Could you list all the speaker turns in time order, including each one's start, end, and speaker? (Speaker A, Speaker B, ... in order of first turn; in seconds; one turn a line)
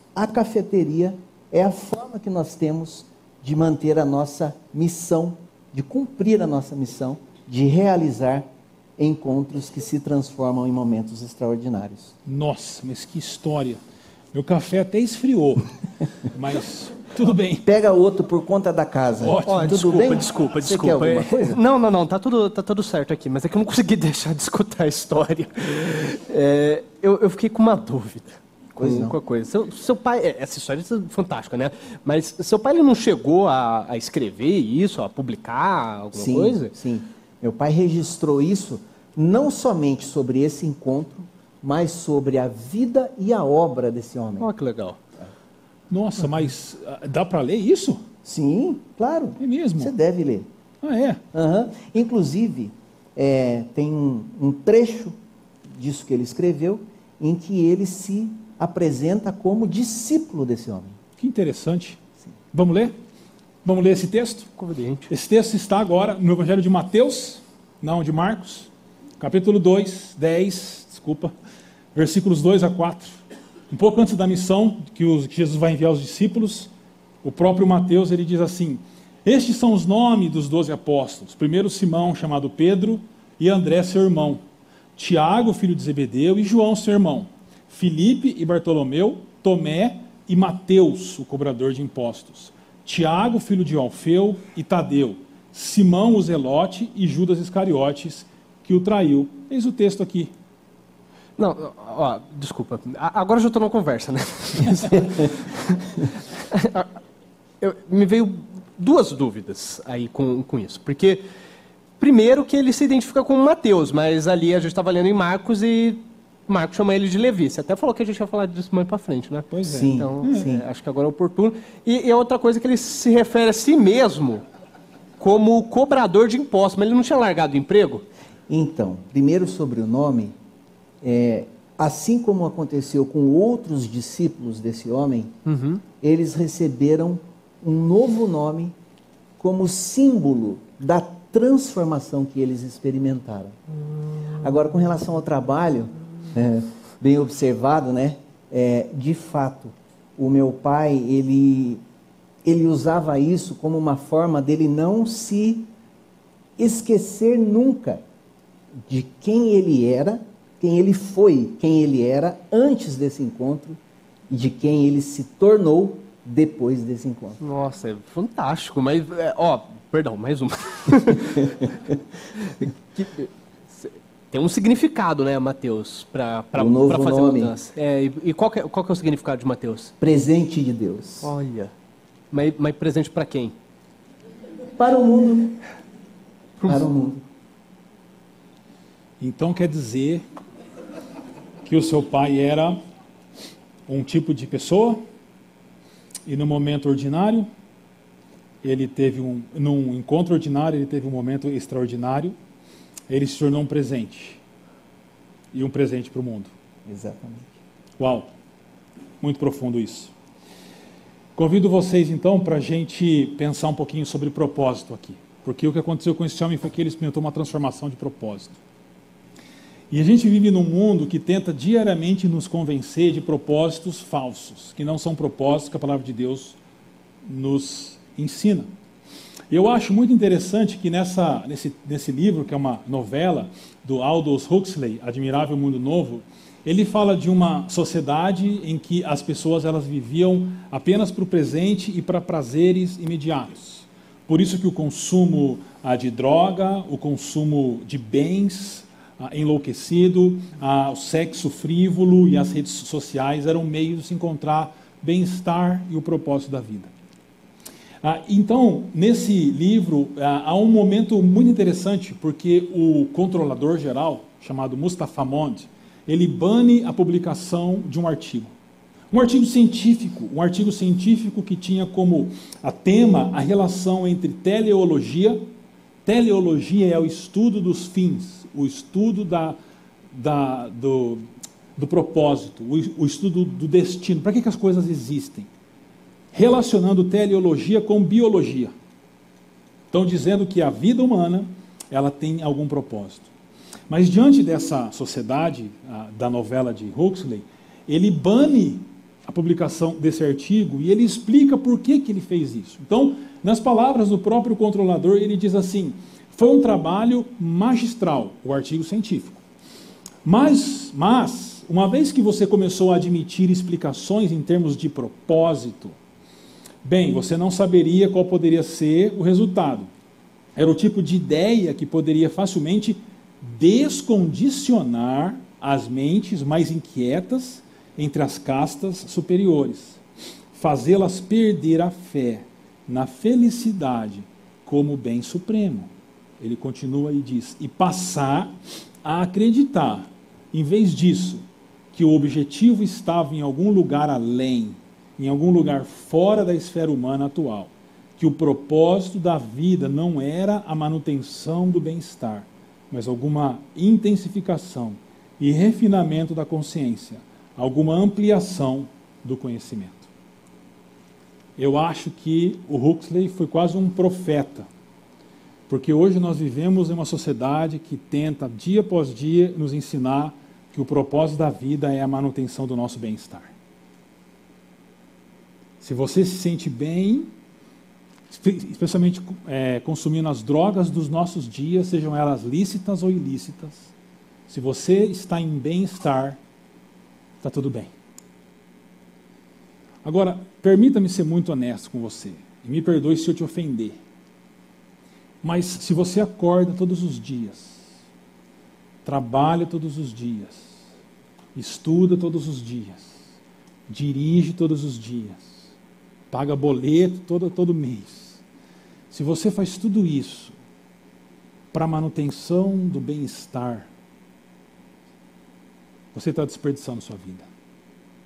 Speaker A: 0.1-12.1
Speaker B: 12.2-13.8
Speaker B: 14.3-17.6
Speaker A: 17.6-21.6
Speaker B: 19.2-20.2
Speaker C: 19.4-36.7
Speaker A: 28.8-29.2
Speaker A: 36.1-44.5
Speaker C: 44.4-45.0
Speaker B: 45.9-48.0
Speaker A: 48.2-50.5
Speaker B: 49.4-49.9
Speaker B: 50.8-51.2
Speaker A: 51.3-55.1
Speaker A: 55.7-61.0
Speaker B: 61.2-62.0
Speaker B: 62.5-62.9
Speaker B: 63.6-64.5
Speaker C: 64.6-65.1
Speaker B: 65.1-71.3
Speaker B: 71.9-73.2
Speaker B: 73.7-76.7
Speaker B: 77.2-84.4
Speaker B: 85.0-100.3
Speaker C: 101.4-106.9
Speaker C: 107.6-111.2
Speaker C: 112.0-124.4
Speaker B: 119.6-120.4
Speaker A: 119.6-120.6
Speaker C: 125.2-128.1
Speaker A: 128.5-130.3
Speaker A: 131.0-135.3
Speaker C: 135.4-135.8
Speaker A: 136.0-138.7
Speaker A: 139.4-143.6
Speaker A: 144.4-151.8
Speaker A: 152.4-155.7
Speaker A: 156.6-158.0
Speaker A: 158.9-167.4
Speaker C: 167.4-171.5
Speaker C: 172.6-179.9
Speaker A: 176.5-177.5
Speaker A: 180.0-181.3
Speaker C: 181.2-181.7
Speaker C: 182.3-183.5
Speaker A: 184.7-185.6
Speaker C: 186.6-186.9
Speaker A: 186.7-187.2
Speaker B: 189.2-190.2
Speaker B: 191.6-192.8
Speaker B: 193.9-195.0
Speaker B: 196.2-197.5
Speaker B: 198.6-202.4
Speaker B: 203.1-204.4
Speaker B: 205.5-206.5
Speaker A: 206.8-207.5
Speaker B: 208.0-208.3
Speaker B: 209.2-210.1
Speaker B: 211.3-218.6
Speaker B: 219.9-226.6
Speaker B: 227.2-228.7
Speaker B: 229.5-256.9
Speaker B: 258.0-268.5
Speaker B: 269.1-275.5
Speaker B: 276.1-279.6
Speaker B: 280.1-281.2
Speaker B: 281.8-285.5
Speaker B: 286.3-288.7
Speaker B: 289.9-293.3
Speaker B: 293.9-309.4
Speaker B: 310.2-315.9
Speaker B: 316.8-319.9
Speaker B: 320.6-330.0
Speaker B: 330.5-360.1
Speaker B: 361.6-364.7
Speaker B: 365.7-373.5
Speaker B: 375.8-377.3
Speaker B: 378.3-383.9
Speaker B: 384.5-386.4
Speaker B: 387.4-387.9
Speaker B: 390.0-394.0
Speaker B: 395.4-397.9
Speaker B: 399.0-400.8
Speaker B: 401.5-403.2
Speaker B: 403.9-405.7
Speaker B: 406.3-408.4
Speaker B: 409.1-410.5
Speaker B: 411.7-413.9
Speaker B: 416.1-417.5